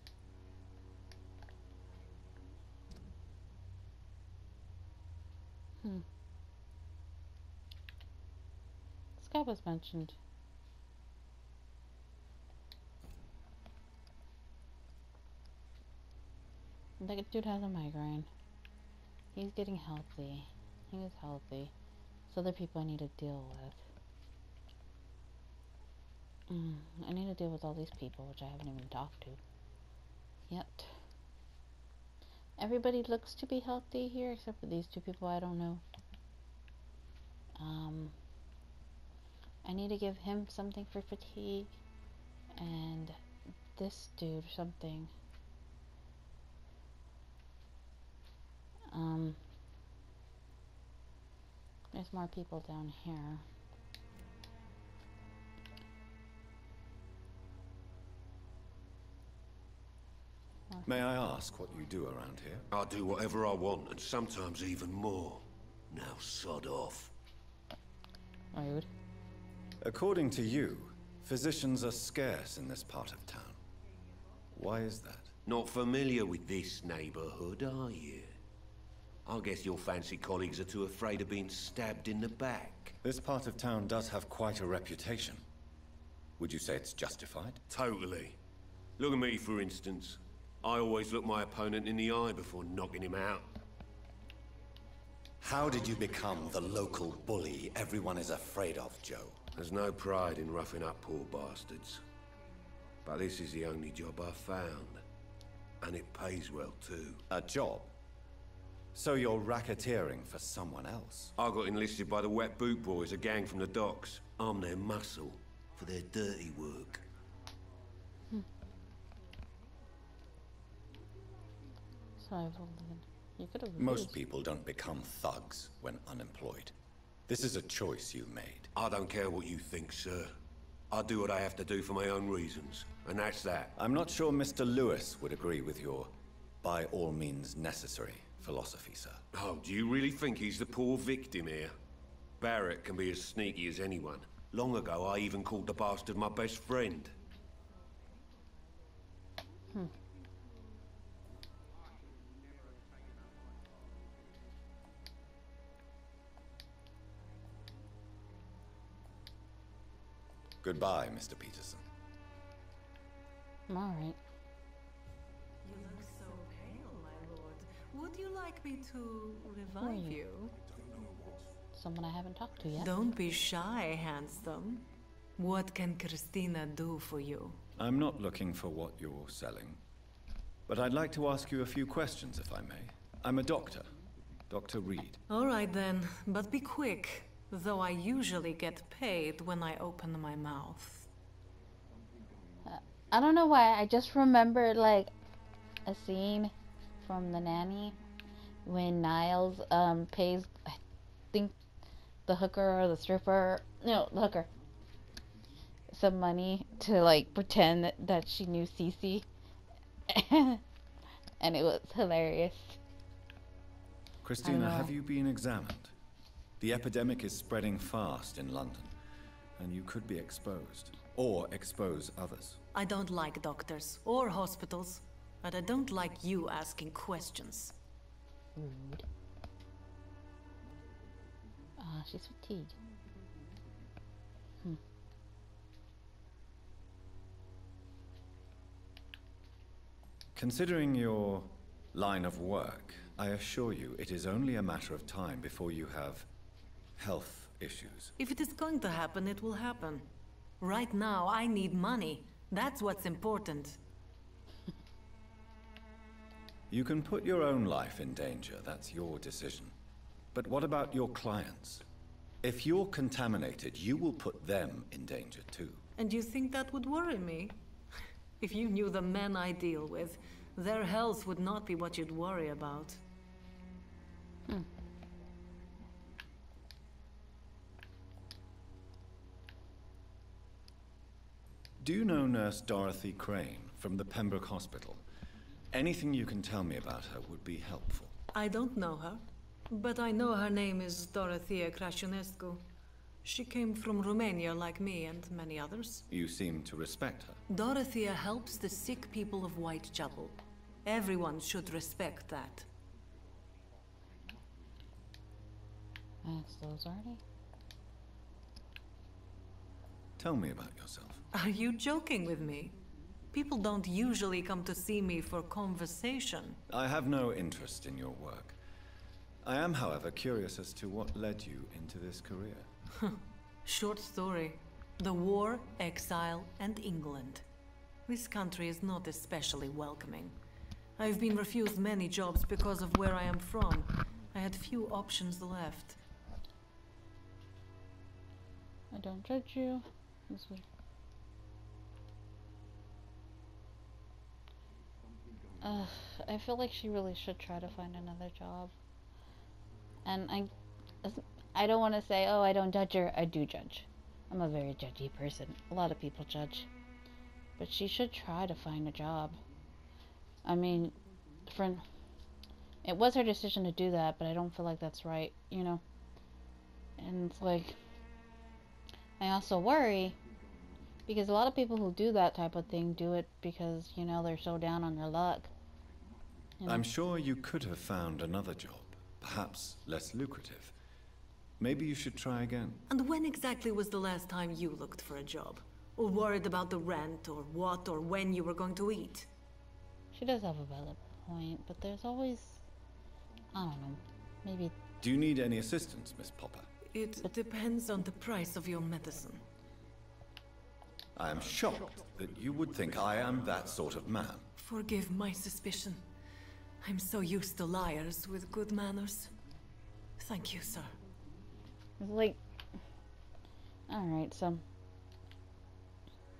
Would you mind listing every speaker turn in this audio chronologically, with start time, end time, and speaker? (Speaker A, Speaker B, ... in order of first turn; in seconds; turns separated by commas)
Speaker A: 9.2-10.2, Speaker A: 17.0-18.3, Speaker A: 19.3-21.7, Speaker A: 22.3-23.8, Speaker A: 26.5-29.4, Speaker A: 30.5-30.9, Speaker A: 32.6-35.8, Speaker A: 37.6-38.1, Speaker A: 39.6-41.7, Speaker A: 42.5-43.2, Speaker A: 43.8-45.1, Speaker A: 48.9-49.4, Speaker A: 51.9-53.4, Speaker B: 60.9-62.7, Speaker C: 62.7-67.1, Speaker A: 68.5-68.9, Speaker B: 69.8-73.6, Speaker B: 74.5-75.3, Speaker C: 75.4-78.3, Speaker C: 79.2-83.0, Speaker B: 83.0-85.4, Speaker B: 86.4-87.6, Speaker C: 87.7-88.4, Speaker C: 89.0-93.5, Speaker B: 95.4-99.4, Speaker C: 99.5-102.0, Speaker C: 103.0-105.0, Speaker C: 105.8-107.2, Speaker B: 107.3-107.9, Speaker B: 108.9-111.3, Speaker C: 111.3-117.0, Speaker A: 122.2-124.1, Speaker B: 123.8-126.7, Speaker B: 127.3-128.7, Speaker C: 128.7-130.3, Speaker C: 130.9-133.7, Speaker B: 133.8-139.2, Speaker C: 139.3-141.7, Speaker C: 142.4-147.1, Speaker B: 160.6-161.8, Speaker A: 163.7-164.2, Speaker D: 165.6-170.6, Speaker A: 169.8-170.2, Speaker A: 171.7-172.9, Speaker D: 172.8-177.6, Speaker B: 177.8-179.8, Speaker B: 180.7-183.9, Speaker B: 184.5-185.2, Speaker D: 185.3-191.1, Speaker A: 192.6-195.1, Speaker A: 195.8-197.9, Speaker A: 198.6-200.8, Speaker A: 202.3-204.5, Speaker A: 205.9-209.2, Speaker A: 210.1-210.6, Speaker A: 211.4-212.8, Speaker B: 214.2-215.9, Speaker A: 214.4-214.9, Speaker B: 216.6-218.9, Speaker B: 219.6-222.6, Speaker D: 222.7-227.7, Speaker A: 228.6-229.0, Speaker A: 231.8-232.7, Speaker B: 240.3-246.3, Speaker B: 247.0-248.1, Speaker D: 248.2-250.1, Speaker D: 250.6-253.8, Speaker B: 256.7-259.7, Speaker B: 260.3-261.8, Speaker B: 262.4-265.8, Speaker D: 266.0-267.6, Speaker D: 268.4-273.0, Speaker B: 281.8-285.0, Speaker B: 285.7-288.1, Speaker D: 288.3-292.6, Speaker D: 293.2-296.0, Speaker B: 296.1-297.4, Speaker D: 297.5-302.7, Speaker A: 306.2-307.2, Speaker B: 310.2-311.2, Speaker D: 311.3-312.8, Speaker D: 313.3-316.6, Speaker B: 316.7-318.6, Speaker B: 319.4-322.7, Speaker D: 323.0-327.4, Speaker D: 328.1-330.4, Speaker D: 331.0-336.0, Speaker A: 338.9-340.6, Speaker A: 345.6-348.7, Speaker A: 350.1-350.5, Speaker A: 351.0-356.7, Speaker A: 357.6-359.4, Speaker A: 360.4-360.9, Speaker A: 361.5-361.8, Speaker A: 362.8-365.8, Speaker A: 367.0-367.8, Speaker A: 369.2-370.1, Speaker A: 371.1-375.5, Speaker B: 376.6-380.7, Speaker B: 381.6-382.8, Speaker D: 382.9-389.3, Speaker A: 390.1-392.6, Speaker A: 393.5-394.7, Speaker B: 395.0-396.7, Speaker D: 396.9-399.4, Speaker B: 401.1-404.5, Speaker D: 404.6-406.0, Speaker D: 406.8-409.3, Speaker D: 410.2-410.9, Speaker A: 412.0-412.4, Speaker A: 413.9-414.6